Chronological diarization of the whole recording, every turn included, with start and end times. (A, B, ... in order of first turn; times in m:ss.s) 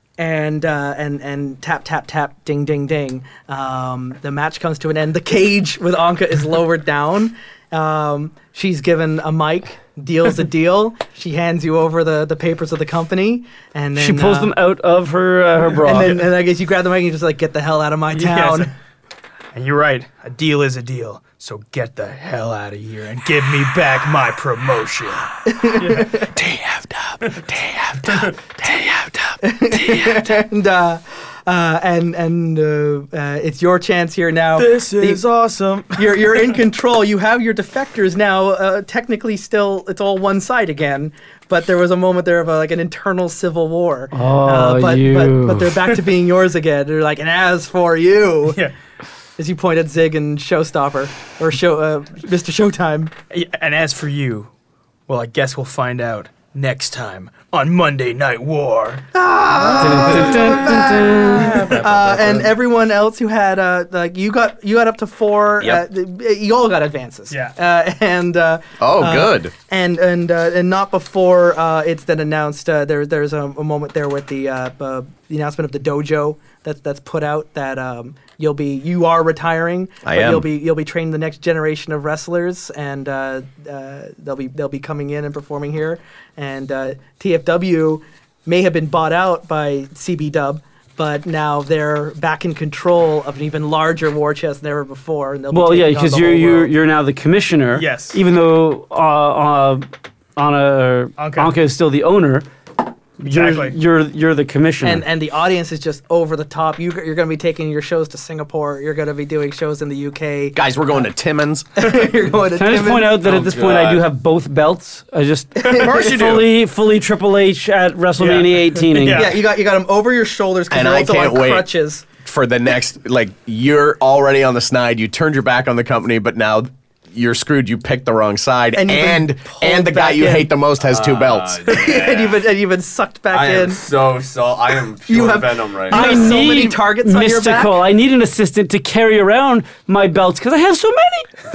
0:00.2-0:14.5 A
0:14.0-0:16.2 B
0:15.8-0:18.7 A
0:18.1-0:18.7 C
0:19.5-0:26.3 C
0:25.5-0:26.3 A
0:27.2-0:29.1 C
0:29.4-0:35.2 A
0:29.8-0:30.2 C
0:34.6-0:36.5 C
0:36.0-0:48.6 A
0:44.1-0:45.7 B
0:49.4-0:53.1 A
0:53.3-0:54.5 C
0:55.1-0:59.1 C
0:59.1-1:36.7 A
0:59.6-1:00.7 D
0:59.6-1:00.3 C
0:59.8-1:01.8 B
1:01.4-1:01.9 C
1:07.3-1:07.6 C
1:08.8-1:09.5 D
1:20.0-1:20.5 D
1:35.5-1:42.5 B
1:37.7-1:38.2 C
1:41.2-1:41.5 C
1:43.2-1:45.0 B
1:43.3-1:43.8 C
1:44.8-1:50.6 A
1:50.6-1:52.1 D
1:51.8-1:53.2 A
1:52.6-1:59.4 B
1:53.2-1:54.0 E
1:55.8-1:56.5 D
1:58.2-1:59.3 C
1:59.1-2:02.0 A
2:00.7-2:01.7 D
2:02.2-2:11.7 D
2:08.7-2:10.5 A
2:10.8-2:12.4 E
2:11.7-2:13.8 A
2:13.3-2:16.3 E
2:15.1-2:17.8 A
2:15.9-2:21.3 B